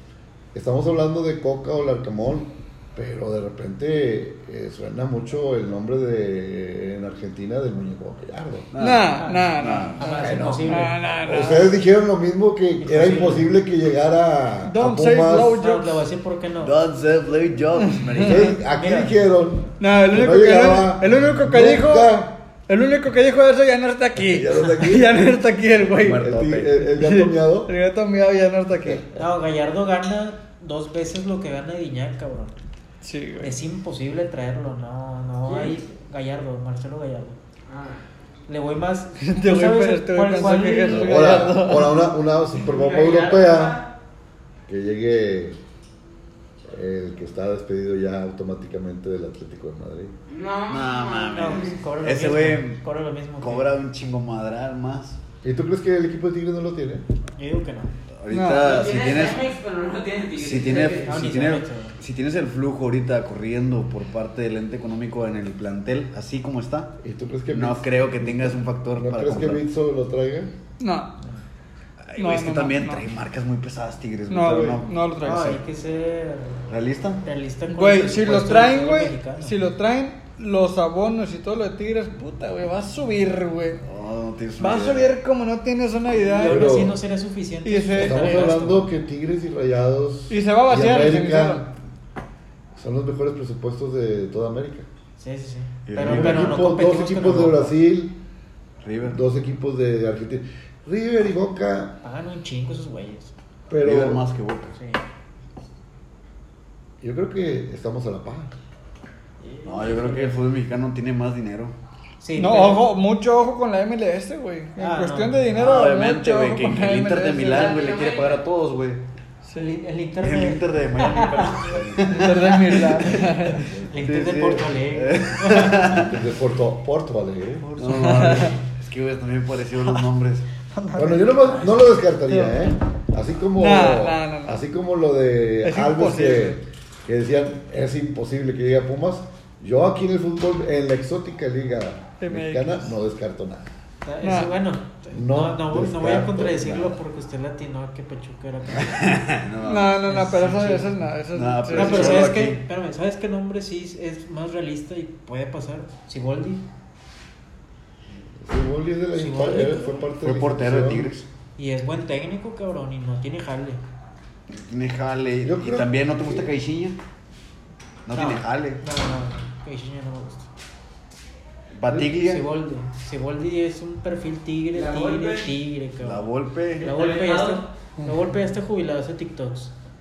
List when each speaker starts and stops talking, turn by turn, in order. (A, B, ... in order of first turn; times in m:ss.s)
0:00.5-0:08.7 A
0:08.7-0:10.9 B
0:08.8-0:11.7 C
0:09.1-0:11.0 D
0:11.2-0:15.6 A
0:12.8-0:13.5 D
0:14.6-0:16.0 C
0:15.6-0:16.8 D
0:16.6-0:18.6 B
0:17.7-0:18.5 C
0:18.2-0:22.4 A
0:18.7-0:19.1 D
0:19.8-0:29.1 C
0:24.3-0:25.2 B
0:24.4-0:25.2 A
0:26.0-0:26.7 B
0:26.1-0:27.7 A
0:29.1-0:32.6 D
0:33.0-0:33.6 C
0:33.4-0:37.4 D
0:35.4-0:35.8 E
0:37.7-0:38.0 E
0:38.5-0:41.4 D
0:39.2-0:42.0 C
0:40.9-0:43.8 A
0:42.6-0:43.9 E
0:44.6-0:45.6 A
0:46.7-0:50.1 A
0:50.3-0:51.8 E
0:50.7-0:52.8 B
0:51.3-0:53.7 D
0:53.4-0:55.2 B
0:55.4-0:57.1 A
0:57.3-0:57.9 D
0:58.1-0:59.6 B
0:58.3-0:58.8 C
0:58.6-1:01.2 E
1:00.3-1:07.0 B
1:00.7-1:02.0 D
1:07.0-1:10.5 A
1:07.5-1:09.6 B
1:10.8-1:11.2 C
1:12.0-1:15.6 B
1:12.2-1:13.0 C
1:14.3-1:15.5 C
1:15.2-1:16.7 D
1:16.7-1:17.2 B
1:17.2-1:19.6 D
1:17.7-1:23.8 C
1:23.8-1:25.1 B
1:24.6-1:26.8 C
1:26.1-1:28.9 D
1:26.4-1:27.0 A
1:27.6-1:28.5 C
1:27.9-1:31.7 A
1:30.3-1:31.7 C
1:32.7-1:34.9 A
1:35.2-1:37.8 D
1:35.9-1:36.6 B
1:36.0-1:38.2 A
1:38.8-1:39.2 B
1:39.0-1:42.0 A
1:42.0-1:43.3 D
1:43.7-1:44.2 A
1:43.8-1:44.8 B
1:44.8-1:45.0 D
1:47.0-1:48.5 A
1:49.4-1:50.4 D
1:49.6-1:51.8 B
1:52.2-1:52.8 D
1:52.4-1:57.8 C
1:54.8-1:55.4 D
1:55.5-1:59.0 B
1:57.4-1:58.4 E
1:59.4-1:59.7 C
1:59.5-2:01.7 D
2:00.2-2:03.3 B
2:02.0-2:03.7 C
2:02.2-2:05.9 D
2:04.0-2:06.2 B
2:05.8-2:07.7 A
2:07.6-2:08.5 D
2:07.8-2:10.4 B
2:07.9-2:08.6 C
2:10.8-2:11.3 C
2:10.9-2:23.7 A
2:12.3-2:12.7 C
2:13.6-2:14.5 C
2:15.6-2:16.6 C
2:22.2-2:22.9 C
2:24.0-2:29.3 D
2:24.2-2:24.5 C
2:25.1-2:27.0 A
2:28.9-2:30.0 B
2:29.6-2:32.4 C
2:30.0-2:31.1 D
2:31.3-2:32.6 B
2:31.7-2:36.6 D
2:38.4-2:41.1 A
2:39.1-2:40.1 D
2:40.2-2:41.3 B
2:41.6-2:43.8 D
2:44.5-2:47.0 B
2:45.4-2:46.5 A
2:48.0-2:48.8 B
2:48.1-2:50.5 D
2:51.7-2:52.4 B
2:51.9-2:59.7 D
2:54.7-2:55.5 E
2:56.0-2:56.9 B
2:56.8-2:57.7 E